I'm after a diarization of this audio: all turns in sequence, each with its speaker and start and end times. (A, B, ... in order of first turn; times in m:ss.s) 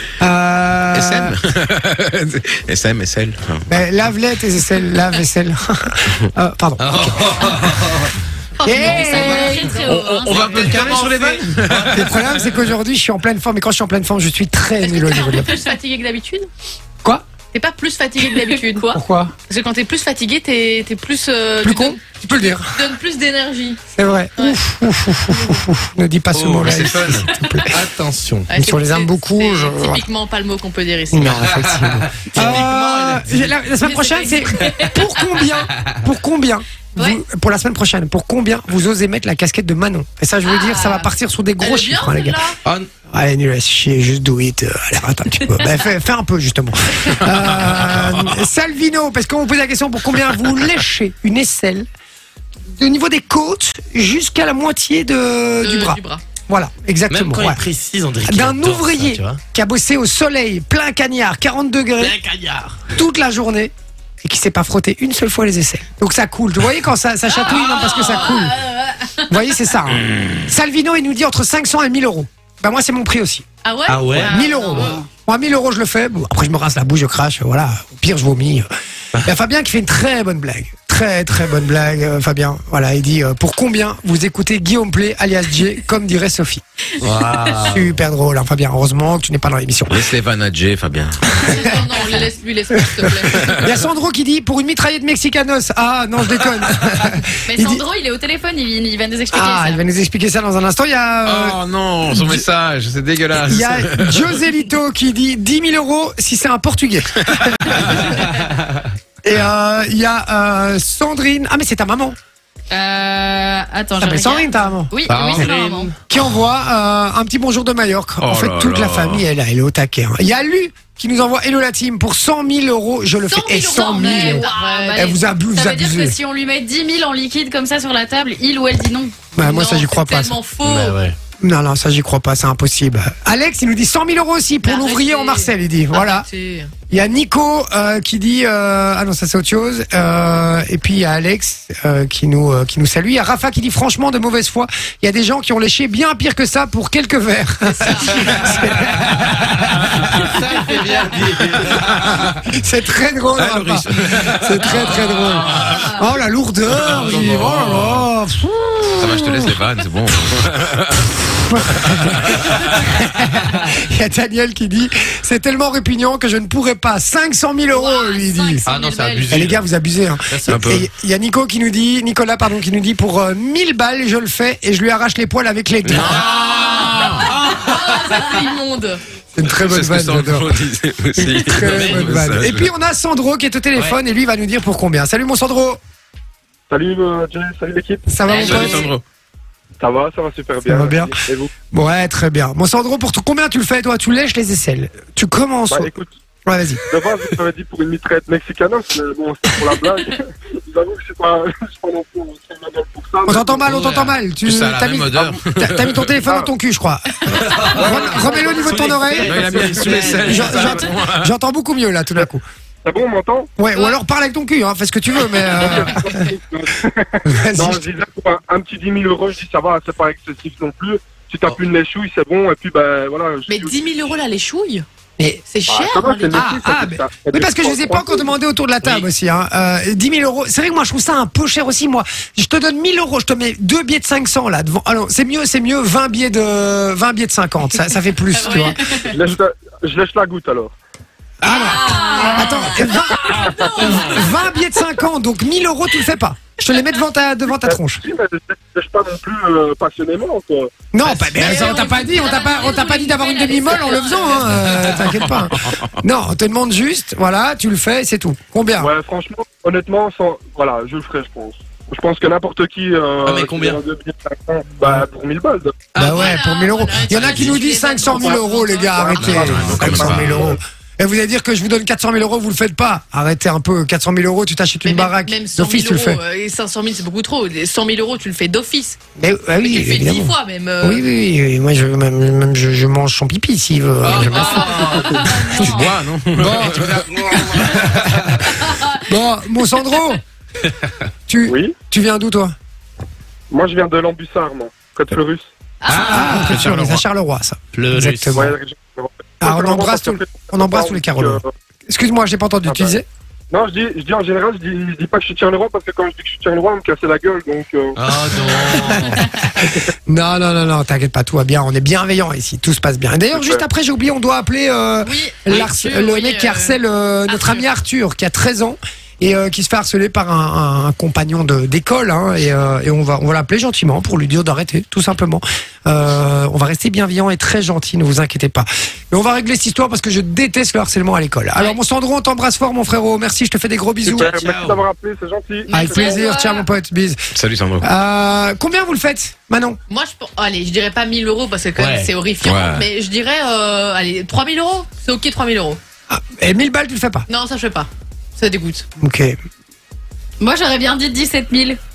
0:00.2-0:01.3 A
0:00.9-0:03.8 B
0:03.7-0:08.0 A
0:06.8-0:08.1 C
0:08.6-0:11.0 D
0:08.6-0:09.8 A
0:08.9-0:10.5 E
0:09.9-0:12.5 B
0:10.5-0:15.5 A
0:10.6-0:11.0 C
0:11.7-0:12.1 C
0:14.8-0:16.5 D
0:15.2-0:15.6 E
0:17.5-0:23.8 D
0:18.9-0:19.3 A
0:21.6-0:22.7 A
0:23.9-0:27.8 A
0:25.3-0:25.6 D
0:26.3-0:26.9 C
0:26.7-0:27.3 B
0:27.7-0:28.5 C
0:28.5-0:31.5 D
0:28.5-0:30.0 A
0:31.1-0:42.4 A
0:31.6-0:33.6 C
0:33.8-0:35.2 D
0:40.4-0:42.6 D
0:42.6-0:42.9 C
0:43.1-0:51.8 A
0:52.8-0:57.6 A
0:55.6-0:56.2 D
0:57.1-0:59.4 C
0:58.2-1:02.2 A
1:02.0-1:02.9 C
1:02.9-1:08.6 A
1:07.3-1:09.6 D
1:07.7-1:08.0 C
1:09.3-1:13.4 A
1:13.6-1:15.0 D
1:13.9-1:14.3 C
1:14.2-1:18.7 A
1:14.4-1:15.1 E
1:19.2-1:26.6 A
1:27.0-1:27.9 C
1:27.6-1:30.0 A
1:29.9-1:31.2 B
1:31.3-1:31.7 A
1:31.4-1:31.7 E
1:31.5-1:33.7 D
1:33.4-1:37.8 A
1:37.5-1:39.8 E
1:39.3-1:42.4 A
1:41.2-1:44.4 B
1:43.3-1:48.3 A
1:49.2-1:52.2 A
1:52.7-1:55.9 E
1:54.0-1:55.4 A
1:55.1-1:55.9 C
1:56.1-2:06.2 A
1:58.2-1:59.3 B
2:03.3-2:05.2 D
2:03.9-2:09.2 E
2:09.3-2:10.4 A
2:09.4-2:11.0 D
2:10.6-2:11.2 C
2:11.4-2:16.3 A
2:14.6-2:16.7 D
2:16.9-2:30.3 A
2:27.8-2:28.2 D
2:30.1-2:32.2 C
2:31.7-2:39.5 A
2:33.4-2:35.9 B
2:35.7-2:36.1 E
2:36.7-2:38.1 B
2:36.8-2:37.9 C
2:39.0-2:41.0 B
2:41.5-2:48.6 A
2:41.6-2:42.7 B
2:47.7-2:49.5 D
2:48.6-2:49.7 C
2:49.3-2:56.3 A
2:50.3-2:50.7 C
2:50.5-2:50.8 B
2:55.8-2:57.4 B
2:56.5-2:59.0 D
2:59.3-3:00.5 A
2:59.4-3:02.7 B
3:01.2-3:05.8 A
3:06.7-3:08.7 F
3:08.1-3:08.9 A
3:08.3-3:08.7 E
3:08.3-3:08.6 C
3:08.4-3:08.9 D
3:08.6-3:09.0 B
3:09.8-3:11.5 F
3:10.7-3:11.1 A
3:11.7-3:15.9 A
3:15.7-3:16.1 F
3:16.4-3:16.8 A
3:16.9-3:23.8 F
3:23.3-3:32.4 A
3:23.6-3:24.0 C
3:23.8-3:26.2 B
3:26.2-3:26.5 F
3:27.3-3:30.7 C
3:27.4-3:27.6 E
3:27.8-3:30.8 F
3:29.2-3:31.3 B
3:32.8-3:33.5 F
3:33.6-3:36.3 A
3:35.3-3:43.9 F
3:37.2-3:37.8 A
3:43.5-3:44.8 D
3:45.2-3:45.4 A
3:45.5-3:46.5 D
3:45.7-3:48.3 F
3:46.3-3:59.2 A
3:58.4-3:58.8 D
3:58.6-3:59.1 E
3:59.1-4:00.7 F
4:01.4-4:08.0 A
4:01.4-4:04.4 E
4:07.6-4:10.7 F
4:10.9-4:18.9 A
4:11.0-4:11.4 C
4:11.4-4:14.8 E
4:13.4-4:14.5 D
4:18.8-4:25.8 F
4:23.2-4:23.8 C
4:25.9-4:30.0 D
4:25.9-4:36.2 A
4:28.1-4:30.6 F
4:29.2-4:30.5 B
4:34.8-4:39.0 D
4:39.2-4:50.2 A
4:39.6-4:41.0 D
4:44.0-4:45.2 C
4:44.0-4:46.0 D
4:45.6-4:47.1 B
4:51.3-4:52.5 A
4:51.4-4:51.7 F
4:53.5-4:55.5 F
4:55.8-4:56.4 E
4:55.9-4:56.7 C
4:56.0-4:58.5 A
4:56.3-4:56.6 D
4:56.5-4:57.0 B
4:57.7-4:58.5 C
4:58.3-5:01.5 F
4:59.4-5:03.0 A
5:02.6-5:03.0 F
5:03.5-5:09.8 F
5:08.0-5:09.3 C
5:10.0-5:34.3 A
5:13.3-5:13.6 F
5:15.0-5:16.8 D
5:17.3-5:17.6 D
5:34.0-5:36.3 F
5:34.1-5:34.8 C
5:35.7-5:36.7 E
5:35.7-5:37.2 A
5:37.3-5:37.9 B
5:37.8-5:39.8 A
5:39.9-5:45.8 D
5:41.8-5:42.1 C
5:42.4-5:42.8 B
5:46.1-5:47.3 A
5:47.3-5:48.8 D
5:49.0-5:49.4 A
5:50.4-5:51.8 E